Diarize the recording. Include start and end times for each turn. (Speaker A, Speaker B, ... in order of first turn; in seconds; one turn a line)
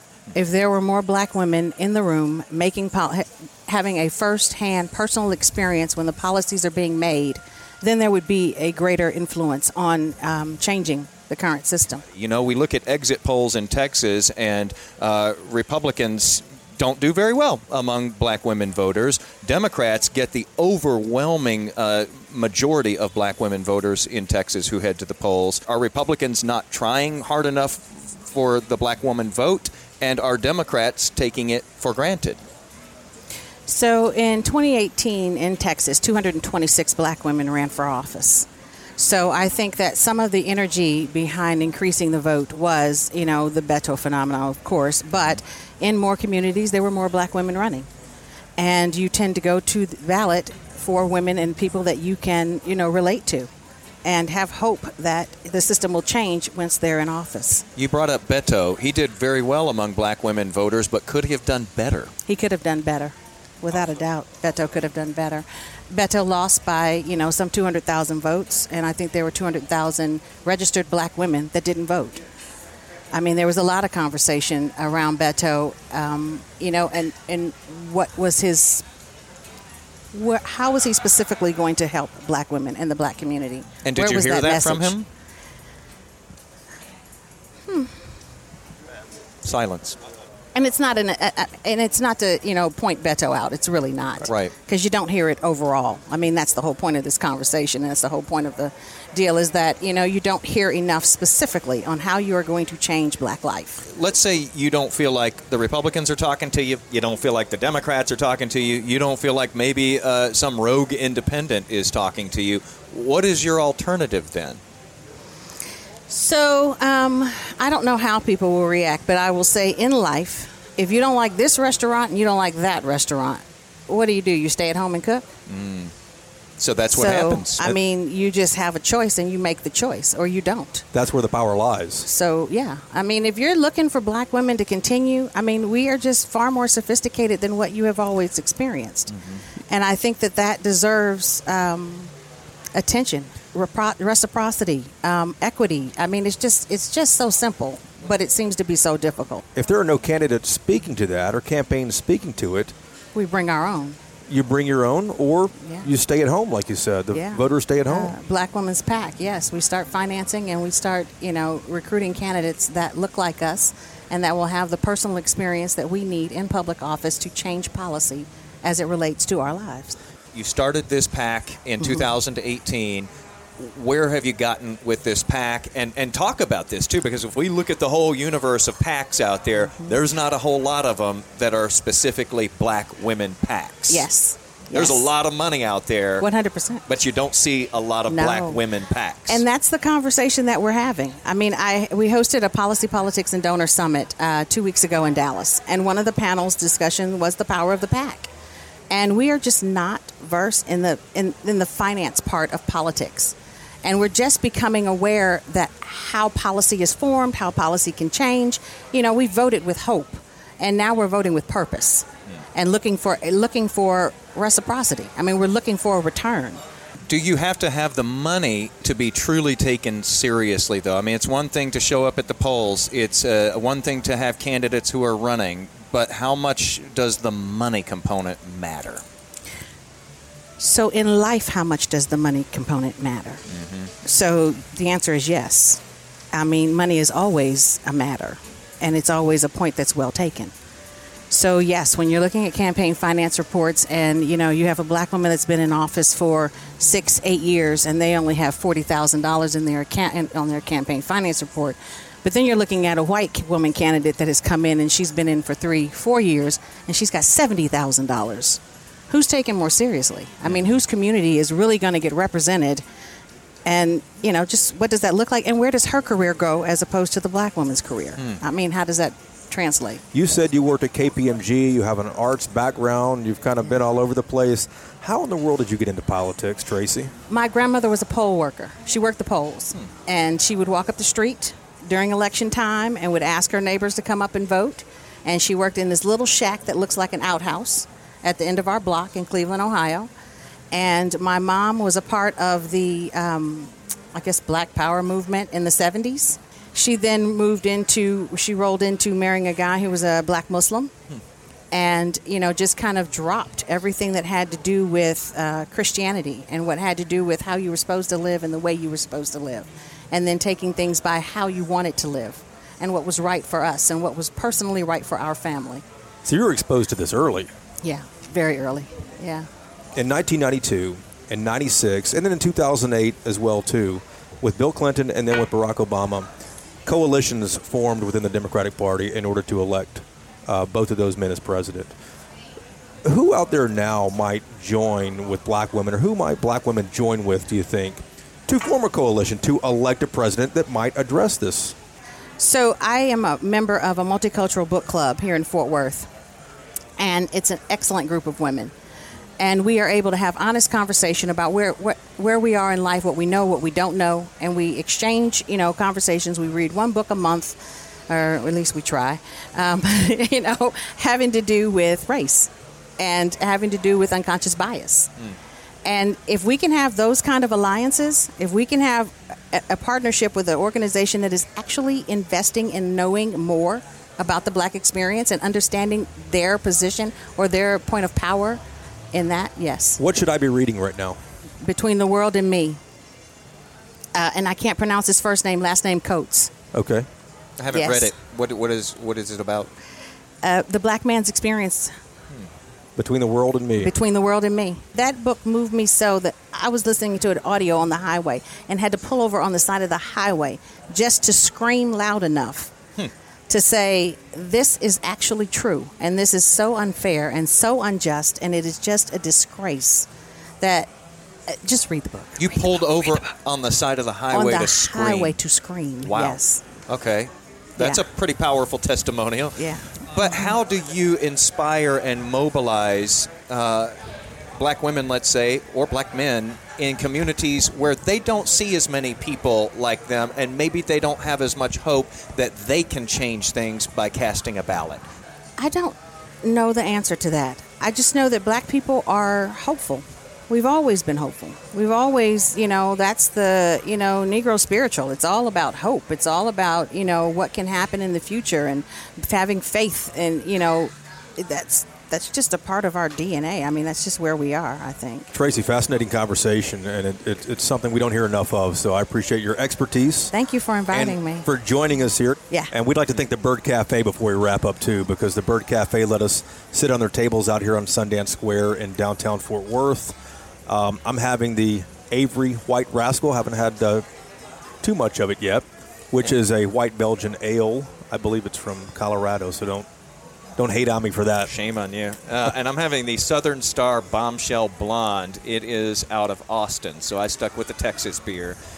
Speaker A: 0.3-12.0
Speaker B: 12.1-32.4
Speaker A: 33.7-47.9
Speaker A: 48.6-53.5
Speaker A: 54.0-57.7
Speaker B: 57.8-62.1
Speaker A: 62.3-72.2
Speaker A: 73.1-78.8
Speaker A: 80.1-85.0
Speaker B: 83.8-85.1
Speaker A: 87.7-87.9
Speaker B: 89.4-90.0
Speaker A: 90.5-103.8
Speaker B: 103.9-114.6
Speaker A: 116.1-125.2
Speaker B: 125.5-125.9
Speaker B: 126.6-127.8
Speaker A: 126.9-130.9
Speaker C: 130.9-132.1
Speaker A: 132.1-139.2
Speaker A: 139.7-142.1
Speaker A: 142.7-149.4
Speaker C: 149.6-152.7
Speaker A: 153.2-154.0
Speaker C: 154.3-158.2
Speaker A: 155.6-155.8
Speaker A: 157.1-170.0
Speaker B: 170.3-173.1
Speaker B: 173.6-184.1
Speaker A: 179.6-179.9
Speaker A: 183.9-185.1
Speaker B: 184.7-186.3
Speaker A: 186.2-186.8
Speaker B: 186.9-189.4
Speaker A: 188.1-188.6
Speaker A: 189.3-198.3
Speaker A: 198.9-216.6
Speaker B: 217.1-229.0
Speaker A: 230.6-233.4
Speaker B: 233.5-233.9
Speaker A: 234.0-235.8
Speaker A: 236.3-240.5
Speaker A: 241.3-262.8
Speaker A: 263.7-270.0
Speaker C: 270.1-277.1
Speaker A: 277.3-290.1
Speaker A: 290.7-300.9
Speaker A: 301.7-315.8
Speaker C: 316.2-317.5
Speaker A: 317.8-319.5
Speaker C: 319.9-326.3
Speaker C: 326.9-331.9
Speaker C: 333.1-341.8
Speaker A: 342.4-346.1
Speaker A: 347.0-348.7
Speaker A: 349.4-365.1
Speaker A: 365.8-378.6
Speaker A: 379.1-380.0
Speaker C: 380.0-381.2
Speaker A: 381.6-382.8
Speaker A: 384.1-386.5
Speaker C: 386.7-387.1
Speaker B: 387.6-389.7
Speaker A: 387.7-388.1
Speaker A: 390.4-391.9
Speaker C: 393.0-393.9
Speaker A: 393.8-402.7
Speaker A: 403.5-410.1
Speaker A: 410.6-410.9
Speaker A: 411.5-412.9
Speaker B: 412.4-415.3
Speaker A: 414.3-416.6
Speaker B: 416.1-419.6
Speaker A: 419.6-420.6
Speaker B: 420.1-423.9
Speaker B: 424.6-435.0
Speaker A: 435.6-455.3
Speaker C: 455.3-460.3
Speaker A: 460.3-461.5
Speaker C: 460.9-474.1
Speaker C: 474.8-479.9
Speaker C: 480.6-481.5
Speaker B: 481.5-488.6